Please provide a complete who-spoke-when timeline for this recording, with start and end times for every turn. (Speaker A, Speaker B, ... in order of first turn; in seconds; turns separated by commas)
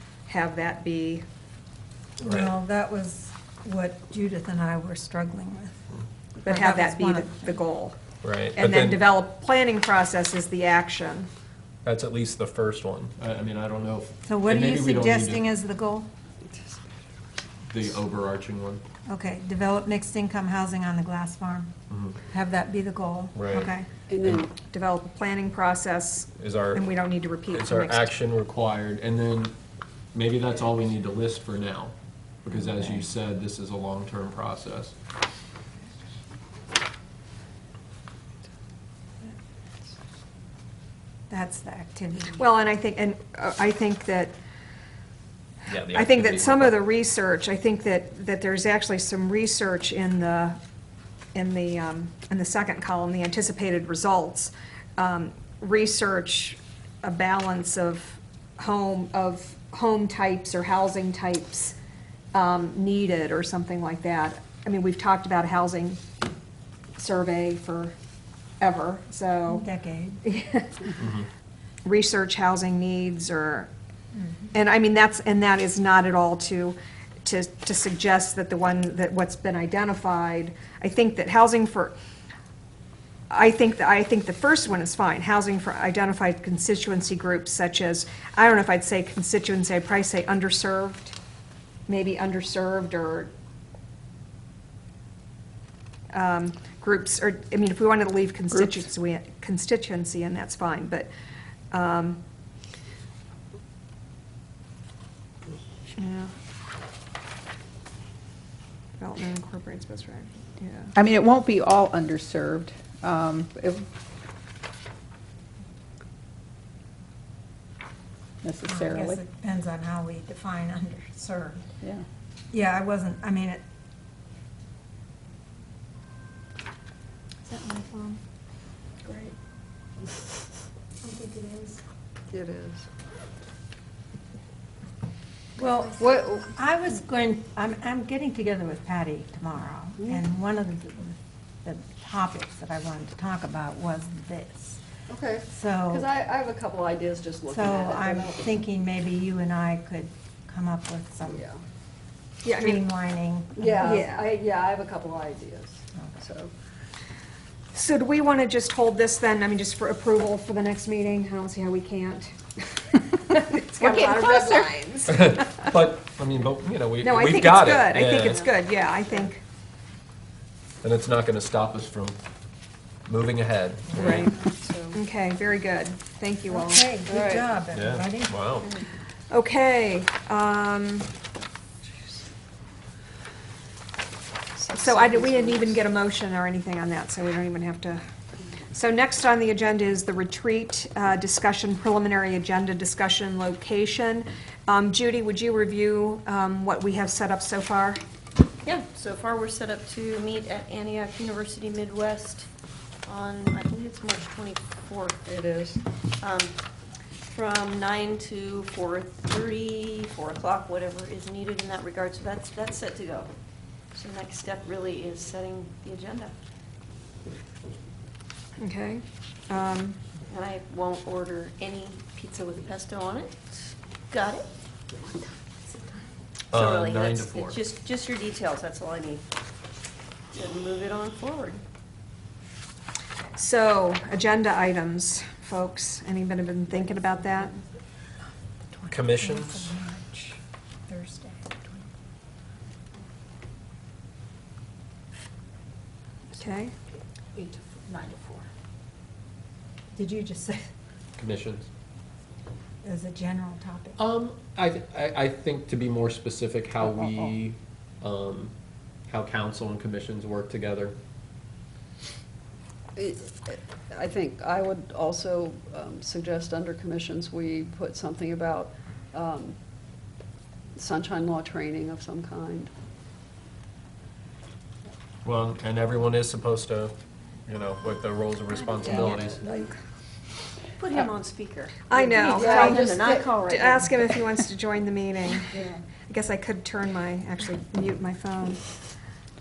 Speaker A: 0.3-1.2, Speaker B: 2.2-5.9, Speaker C: 2.2-2.5, Speaker B: 6.4-7.6, Speaker A: 6.5-8.0, Speaker C: 8.2-9.0, Speaker A: 8.6-11.3, Speaker C: 11.8-15.4, Speaker B: 14.2-16.1, Speaker D: 16.5-16.9, Speaker C: 17.7-18.8, Speaker B: 19.1-21.7, Speaker C: 21.9-22.2, Speaker B: 22.3-23.9, Speaker C: 23.4-23.7, Speaker D: 24.1-24.5, Speaker A: 24.7-28.1, Speaker C: 26.4-26.9, Speaker C: 27.5-29.6, Speaker C: 30.1-34.9, Speaker B: 41.3-42.4, Speaker A: 42.4-44.4, Speaker C: 45.7-46.9, Speaker A: 45.9-50.6, Speaker A: 51.4-61.8, Speaker A: 62.3-66.0, Speaker A: 67.0-68.0, Speaker A: 68.6-69.7, Speaker B: 69.5-70.2, Speaker A: 70.2-70.9, Speaker C: 71.0-71.3, Speaker A: 71.8-73.7, Speaker A: 74.5-82.0, Speaker A: 83.3-91.2, Speaker A: 91.9-93.3, Speaker A: 96.1-101.1, Speaker A: 101.7-102.2, Speaker A: 106.0-106.3, Speaker A: 109.0-110.9, Speaker E: 111.0-113.8, Speaker E: 118.4-119.2, Speaker B: 118.7-121.7, Speaker E: 121.8-122.1, Speaker B: 122.5-123.6, Speaker B: 127.5-128.2, Speaker B: 131.0-131.8, Speaker D: 132.3-132.8, Speaker B: 135.6-144.8, Speaker D: 135.8-136.5, Speaker D: 145.1-148.4, Speaker B: 145.5-146.1, Speaker B: 147.5-151.5, Speaker D: 151.3-151.6, Speaker A: 152.4-152.8, Speaker B: 152.6-154.1, Speaker D: 153.6-156.5, Speaker A: 153.8-154.1, Speaker A: 157.7-165.8, Speaker E: 163.8-164.7, Speaker C: 165.1-168.5, Speaker A: 167.0-169.4, Speaker C: 170.8-172.2, Speaker C: 173.1-174.3, Speaker D: 173.9-174.9, Speaker A: 173.9-174.3, Speaker A: 174.9-176.9, Speaker B: 176.5-178.4, Speaker D: 177.1-177.4, Speaker C: 177.7-178.7, Speaker A: 179.3-181.1, Speaker F: 184.6-185.6, Speaker A: 184.8-188.0, Speaker A: 188.7-198.0, Speaker F: 198.6-202.5, Speaker F: 203.1-205.2, Speaker D: 205.2-205.8, Speaker F: 206.2-206.6, Speaker F: 207.3-213.3, Speaker F: 213.9-216.3, Speaker A: 218.6-220.0, Speaker F: 220.3-224.5, Speaker C: 226.5-227.6, Speaker F: 226.5-229.2, Speaker F: 230.3-231.6, Speaker A: 233.3-237.6, Speaker B: 238.7-241.9, Speaker C: 238.9-239.7, Speaker A: 246.3-246.7, Speaker D: 248.1-248.4, Speaker B: 249.9-250.7, Speaker C: 251.2-251.7, Speaker B: 252.8-254.0, Speaker C: 254.0-258.5, Speaker C: 259.1-261.0, Speaker D: 263.0-270.1, Speaker D: 270.8-272.7, Speaker C: 275.2-276.9, Speaker C: 277.5-279.6, Speaker D: 278.8-279.5, Speaker F: 280.8-283.9, Speaker A: 281.9-288.6, Speaker D: 282.2-283.3